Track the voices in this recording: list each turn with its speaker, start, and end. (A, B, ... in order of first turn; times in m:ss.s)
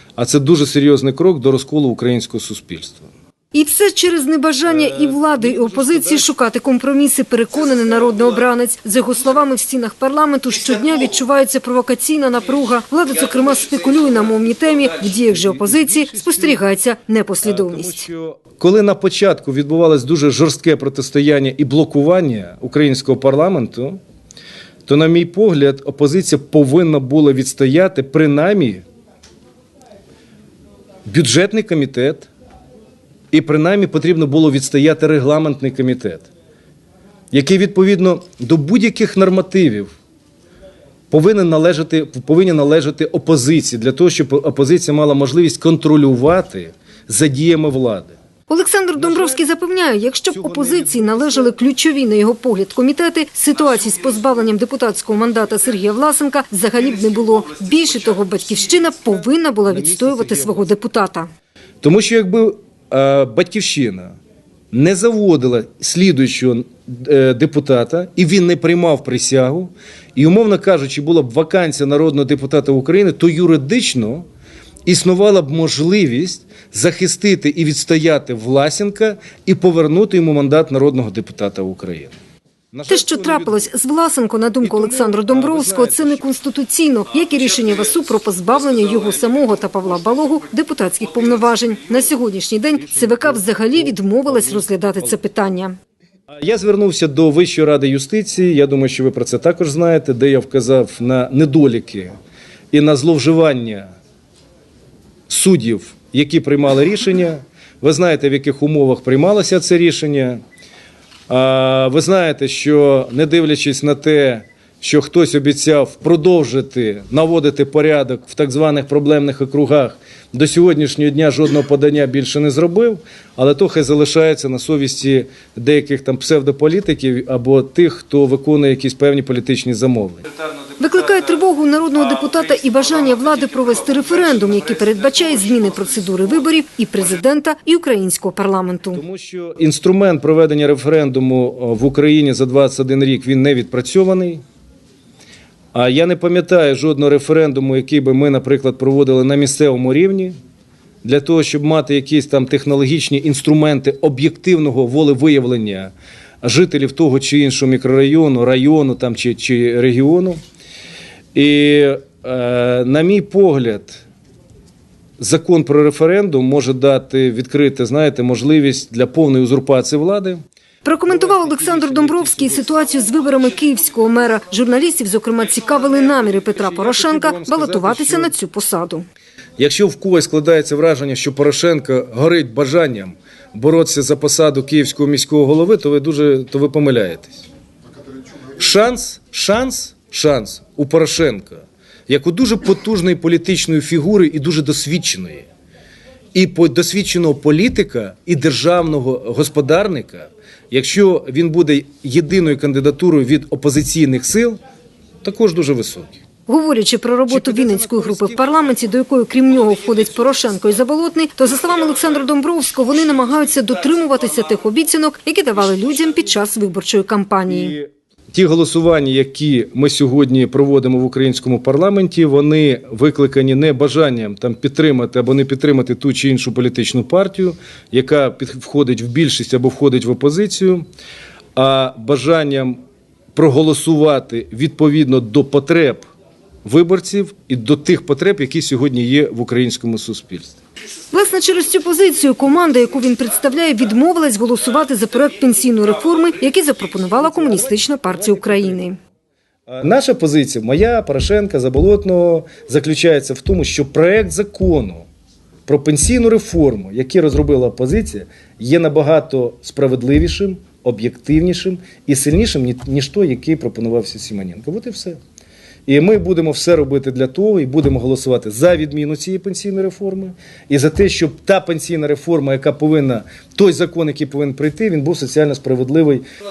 0:00.2-0:03.1 A
0:03.5-0:18.1 B
0:04.7-0:06.3 A
0:15.3-0:16.6 A
0:17.4-0:24.0 A
0:24.9-0:28.8 A
0:31.1-0:32.3 A
0:33.3-0:36.3 A
0:37.3-0:39.9 A
0:41.1-0:48.2 A
0:48.5-1:01.3 B
0:49.0-0:49.4 A
0:50.3-0:51.6 A
0:59.7-1:00.7 A
1:01.8-1:04.2 A
1:04.7-1:14.3 A
1:14.9-1:22.1 A
1:22.7-1:23.7 A
1:22.9-1:35.8 B
1:24.6-1:26.3 A
1:32.8-1:35.2 A
1:36.3-1:42.2 A
1:42.7-1:43.9 A
1:45.3-1:50.4 A
1:51.3-2:10.2 A
2:10.8-2:19.0 B
2:18.9-2:24.4 A
2:25.7-2:30.3 A
2:31.0-2:40.4 A
2:41.3-2:44.0 A
2:45.2-2:50.4 A
2:50.8-2:59.0 B
2:51.1-2:52.8 A
2:56.3-2:58.4 A
2:59.6-3:07.5 A
3:08.6-3:15.5 A
3:16.3-3:24.6 A
3:25.2-3:26.2 A
3:26.5-3:37.7 B
3:27.3-3:28.6 A
3:37.5-3:50.9 A
3:51.6-3:52.8 A
3:53.4-3:56.0 A
3:56.6-4:00.6 A
4:01.1-4:09.0 B
4:07.2-4:08.8 A
4:09.7-4:15.1 A
4:15.7-4:25.2 A
4:25.9-4:36.2 A